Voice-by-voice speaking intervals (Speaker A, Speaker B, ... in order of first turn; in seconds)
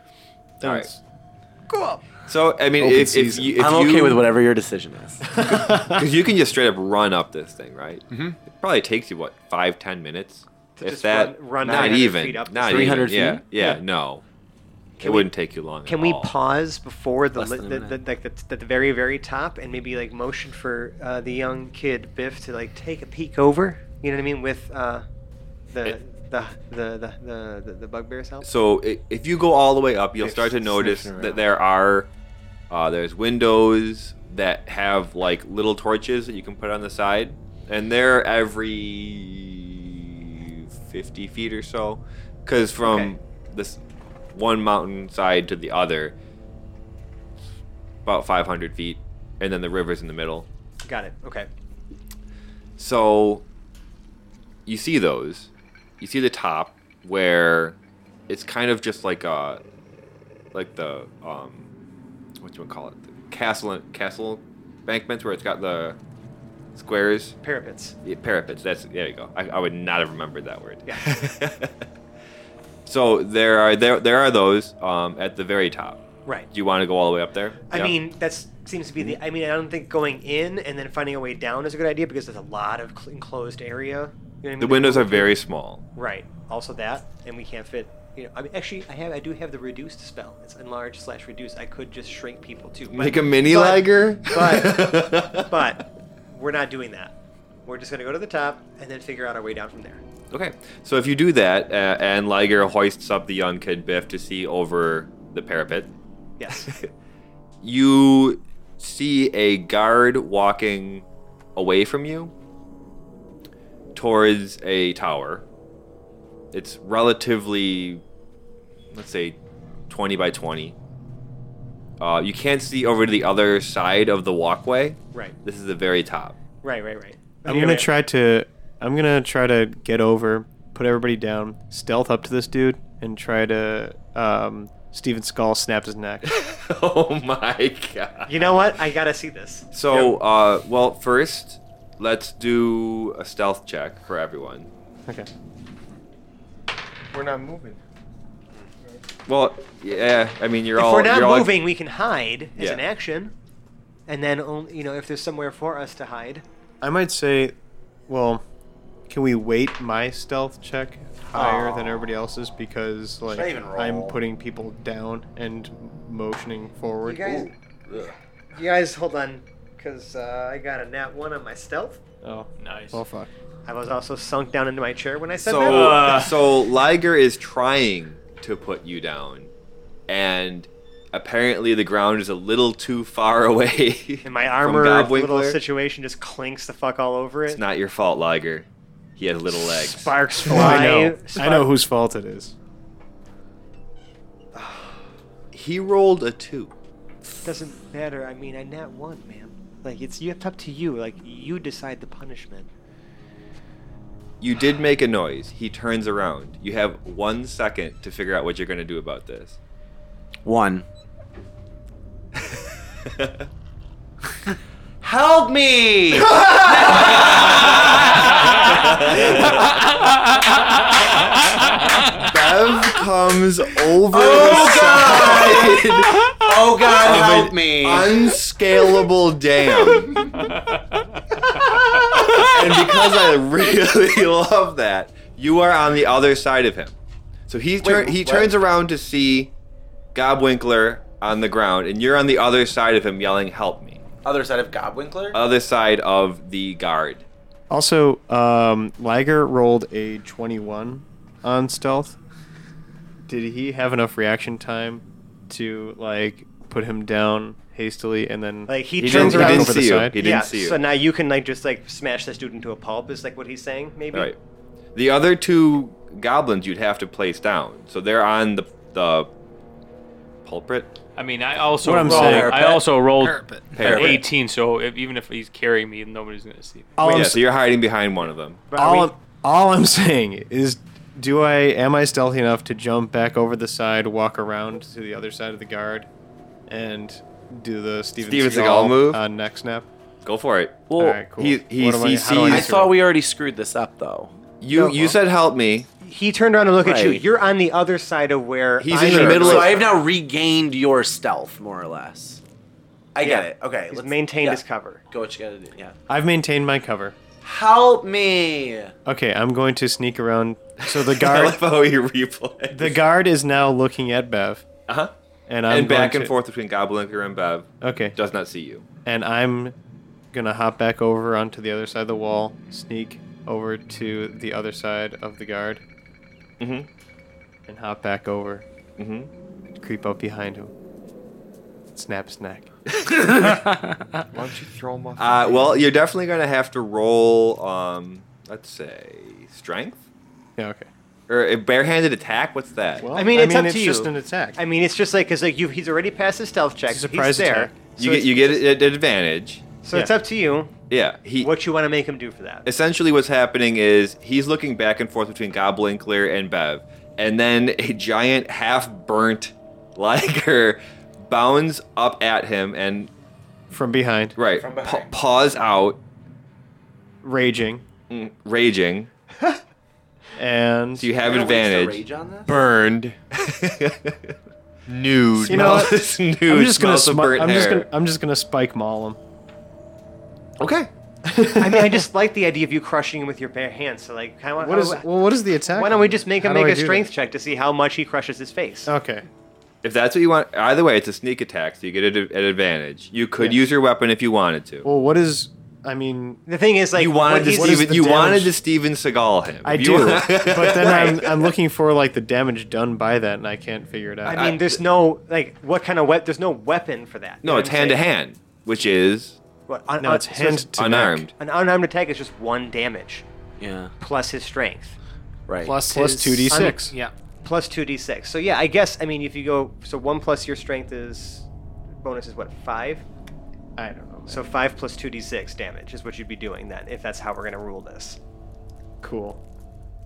Speaker A: 0.6-0.9, 2.3-4.2, 5.4-14.2, 15.0-16.4, 28.4-32.1, 32.7-43.8, 44.3-46.1, 48.0-50.5, 52.8-53.4, 54.7-57.8, 58.3-59.6, 60.5-61.7, 62.4-66.0, 66.8-67.4, 68.0-71.8, 72.9-76.0, 76.5-78.0, 84.6-85.8, 92.9-95.5, 100.3-105.9, 106.5-106.9, 107.6-112.3, 114.0-115.5, 116.5-118.0, 118.9-119.4, 119.9-120.8, 122.0-126.4, 136.2-138.6, 139.7-144.7, 149.3-151.5, 152.6-152.8, 175.6-179.5, 180.1-185.6, 187.5-188.7, 189.2-190.2, 195.5-196.7, 204.4-209.6, 212.4-213.5, 216.4-217.8, 218.3-219.8, 222.1-230.3, 231.5-236.9, 237.5-239.5, 240.1-244.0, 245.3-247.2, 259.0-260.8, 264.1-264.4, 264.9-269.3, 270.4-270.9, 273.8-274.2, 277.1-278.6, 288.2-289.2, 290.2-292.8, 294.6-295.9, 298.8-299.7, 310.8-313.0, 314.9-315.1, 315.7-318.9, 326.6-326.9, 329.0-329.3, 335.2-340.0, 341.3-343.1, 347.9-349.7, 350.9-351.5, 352.6-363.1, 364.4-366.0, 368.1-369.1, 371.0-372.0, 373.3-374.4, 375.4-377.9, 380.6-380.9, 389.8-394.9, 396.9-401.3, 404.3-404.8, 407.4-409.4, 410.7-411.3
Speaker B: 0.6-1.0, 1.7-2.1, 2.9-3.5, 5.4-6.0, 127.5-136.3, 156.8-157.6, 158.1-158.4, 159.1-167.4, 172.2-173.3, 190.5-192.5, 247.7-252.2, 253.3-260.2, 271.8-272.6, 277.0-277.4, 278.8-286.1, 286.7-289.9, 291.0-293.0, 306.1-307.2, 309.1-311.6, 312.7-314.7, 315.5-316.3, 317.8-318.2, 319.1-319.8, 320.3-325.8, 327.7-328.6, 329.8-330.7, 331.9-332.7, 340.6-340.9, 343.0-344.6, 346.9-347.8, 363.7-364.4, 367.2-367.9, 370.4-371.1, 375.5-379.2, 381.2-382.1, 384.6-387.1, 388.9-389.3, 394.9-396.4, 397.4-398.5, 399.6-404.5, 410.0-411.3, 415.9-416.9, 423.8-424.4, 429.0-429.4
Speaker C: 3.2-5.3, 12.7-13.5, 17.4-18.0, 163.3-164.2, 167.2-168.1, 210.4-210.9, 215.0-218.3, 224.1-228.4, 237.8-238.6, 244.2-245.4, 272.1-272.8, 273.9-274.2, 290.9-291.2, 292.4-294.3, 296.8-297.2, 299.1-302.4, 303.1-305.9, 307.4-308.9, 364.5-365.1, 371.2-372.6, 413.6-413.9, 415.5-415.9
Speaker D: 8.1-8.4, 11.6-12.1, 30.2-31.4, 147.1-147.8, 175.4-175.8, 334.3-335.9, 372.5-373.2, 374.9-376.0
Speaker E: 10.8-13.8, 15.0-15.3, 15.9-25.1, 25.7-28.5, 42.8-43.1, 50.9-51.5, 67.4-68.0, 76.2-76.5, 77.7-85.4, 86.0-97.1, 97.7-100.0, 106.4-106.7, 126.6-127.9, 138.3-140.0, 150.8-153.3, 154.1-156.4, 161.3-162.0, 167.1-167.5, 168.5-172.0, 173.7-176.2, 184.2-187.6, 189.5-191.7, 194.5-195.0, 197.4-202.7, 258.7-264.3, 277.0-277.4, 278.7-279.1, 294.7-295.2, 296.0-299.8, 303.2-305.0, 343.1-348.8, 349.8-350.8, 351.4-352.7, 381.6-385.1, 385.7-388.9, 396.5-398.5, 400.8-401.2, 404.2-408.0, 409.7-410.7, 411.4-413.3, 414.0-415.0, 416.5-416.9, 417.4-423.1, 424.3-428.2
Speaker F: 172.6-173.0, 175.6-176.4, 230.3-230.8, 271.2-277.0
Speaker G: 273.2-273.8, 415.6-417.1